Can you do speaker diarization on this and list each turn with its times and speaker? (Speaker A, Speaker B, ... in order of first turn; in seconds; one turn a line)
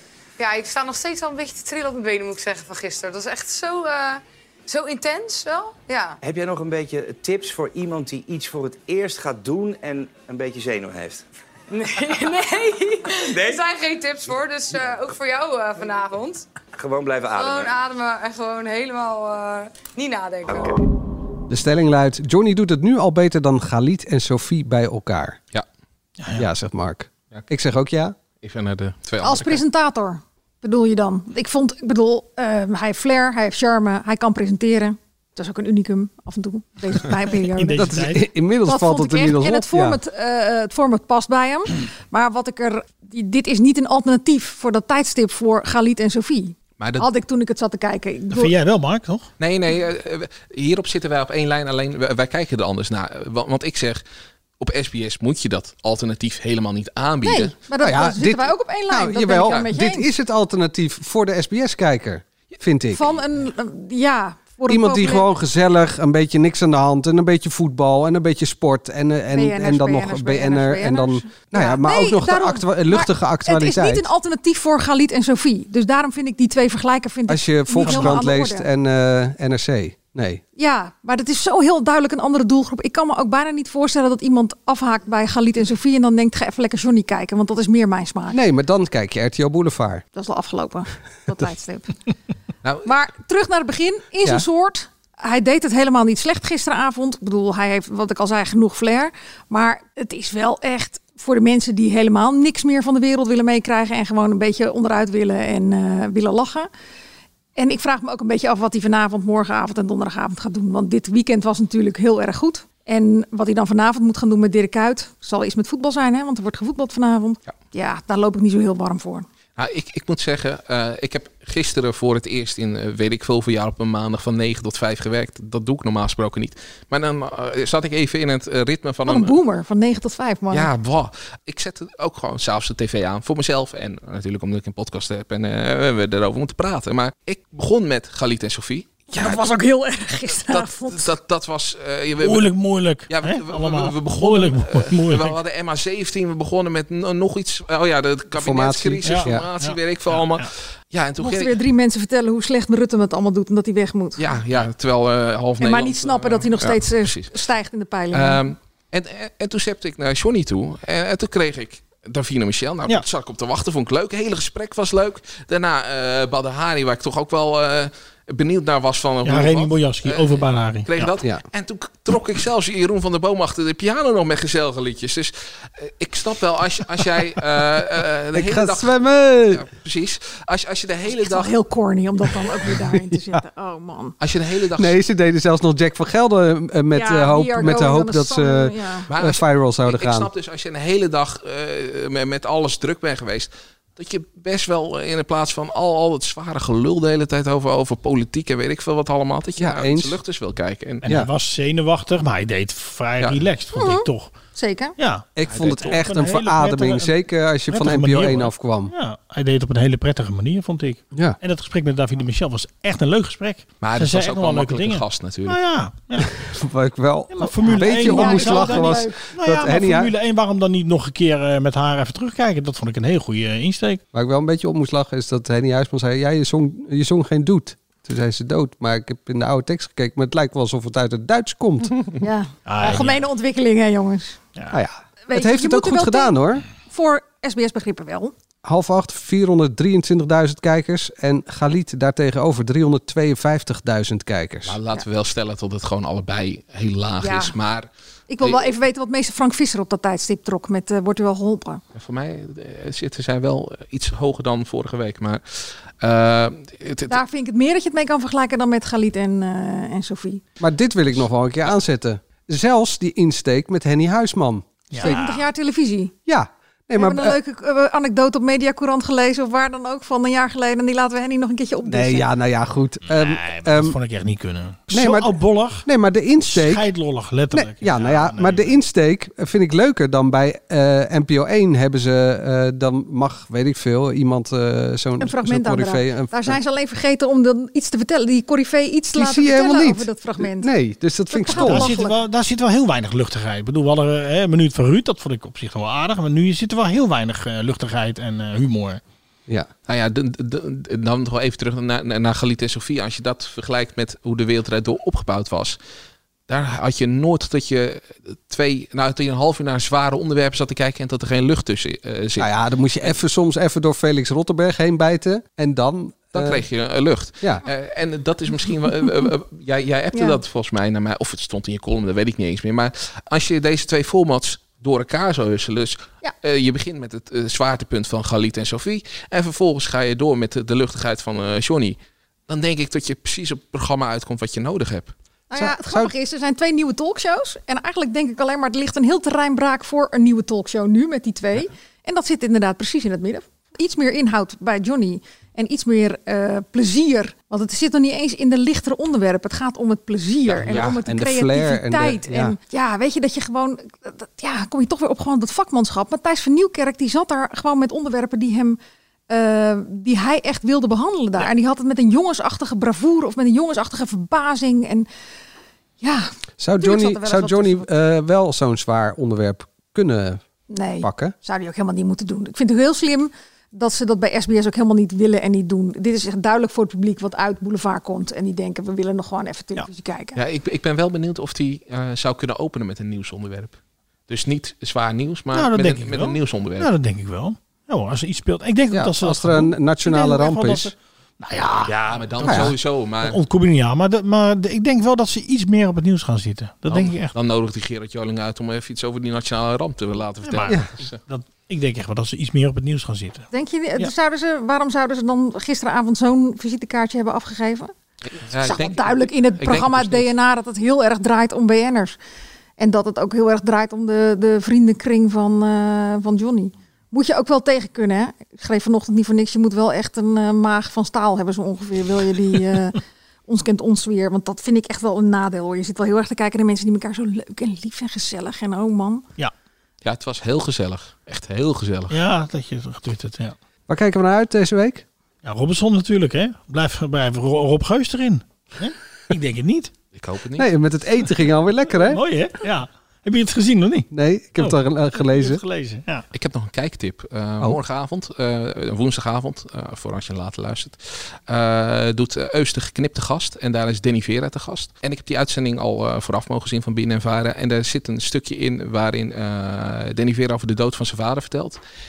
Speaker A: 0.4-6.2
Speaker B: 6.2-11.2
Speaker A: 11.7-16.4
Speaker B: 13.3-13.6
Speaker B: 16.8-17.7
Speaker A: 17.3-20.8
Speaker B: 20.5-20.7
Speaker C: 21.5-25.4
Speaker D: 26.2-26.5
Speaker C: 26.4-28.1
Speaker E: 28.4-29.6
Speaker F: 29.2-38.0
Speaker D: 37.5-38.2
Speaker C: 37.8-40.0
Speaker F: 38.6-48.5
Speaker E: 46.8-47.1
Speaker D: 48.3-49.3
Speaker E: 49.4-54.0
Speaker E: 54.6-57.5
Speaker F: 57.2-60.1
Speaker C: 57.8-63.0
Speaker F: 62.9-65.3
Speaker C: 64.7-74.1
Speaker F: 69.3-78.7
Speaker C: 77.3-80.4
Speaker D: 77.8-78.2
Speaker F: 80.6-88.4
Speaker C: 88.3-90.0
Speaker F: 90.1-91.9
Speaker F: 92.8-106.7
Speaker F: 107.5-119.2
Speaker E: 119.6-129.4
Speaker F: 129.1-130.7
Speaker E: 130.5-139.4
Speaker F: 139.1-141.1
Speaker E: 140.3-142.5
Speaker D: 142.2-145.4
Speaker E: 143.1-151.6
Speaker C: 148.3-149.4
Speaker D: 149.0-150.5
Speaker F: 151.2-154.2
Speaker E: 154.2-157.3
Speaker F: 155.6-158.5
Speaker E: 158.1-181.5
Speaker D: 169.2-171.1
Speaker C: 178.3-179.6
Speaker F: 181.1-184.1
Speaker C: 182.9-183.4
Speaker E: 184.2-185.0
Speaker C: 184.8-190.3
Speaker F: 186.9-189.1
Speaker E: 189.1-201.1
Speaker C: 199.6-200.2
Speaker D: 201.0-204.3
Speaker F: 203.7-204.9
Speaker D: 205.0-207.1
Speaker C: 205.3-208.9
Speaker E: 205.5-206.0
Speaker D: 207.7-216.3
Speaker C: 211.1-211.4
Speaker E: 213.8-215.6
Speaker C: 216.2-220.1
Speaker D: 217.3-224.0
Speaker F: 217.6-219.2
Speaker C: 224.1-232.2
Speaker F: 232.2-234.4
Speaker D: 232.7-233.2
Speaker C: 234.7-236.7
Speaker F: 235.3-238.3
Speaker C: 238.6-244.8
Speaker E: 244.7-247.9
Speaker F: 247.2-247.5
Speaker F: 248.3-251.8
Speaker E: 248.4-248.7
Speaker E: 251.9-257.2
Speaker F: 257.1-260.4
Speaker C: 260.6-265.2
Speaker D: 264.9-265.4
Speaker F: 265.0-266.1
Speaker C: 266.2-267.4
Speaker F: 266.9-272.3
Speaker C: 271.8-274.0
Speaker D: 273.1-275.9
Speaker C: 274.9-276.9
Speaker D: 276.4-278.7
Speaker C: 277.5-286.6
Speaker F: 285.2-290.7
Speaker C: 289.1-291.9
Speaker F: 291.3-292.2
Speaker D: 291.5-299.0
Speaker E: 299.9-305.8
Speaker E: 306.5-312.5
Speaker C: 312.4-316.6
Speaker E: 316.3-332.0
Speaker F: 320.1-320.4
Speaker E: 332.5-335.1
Speaker F: 335.5-358.8
Speaker C: 335.5-336.1
Speaker E: 350.5-350.9
Speaker C: 350.6-352.6
Speaker F: 359.3-365.1
Speaker F: 366.0-366.3
Speaker C: 366.6-370.4
Speaker F: 366.8-367.9
Speaker F: 370.7-380.4
Speaker C: 371.0-371.3
Speaker E: 380.3-383.8
Speaker E: 384.3-386.9
Speaker D: 385.5-397.3
Speaker C: 388.9-390.9
Speaker E: 391.8-393.4
Speaker C: 392.4-392.7
Speaker E: 396.9-401.2
Speaker D: 400.4-403.4
Speaker F: 403.5-407.9
Speaker E: 408.4-410.3
Speaker F: 408.6-412.1
Speaker F: 412.8-429.2
Speaker E: 430.0-432.2
Speaker D: 432.1-433.6
Speaker C: 433.9-435.0
Speaker D: 435.4-439.9
Speaker E: 440.1-440.7
Speaker C: 440.6-442.2
Speaker D: 441.9-446.2
Speaker C: 444.1-445.6
Speaker E: 446.3-461.8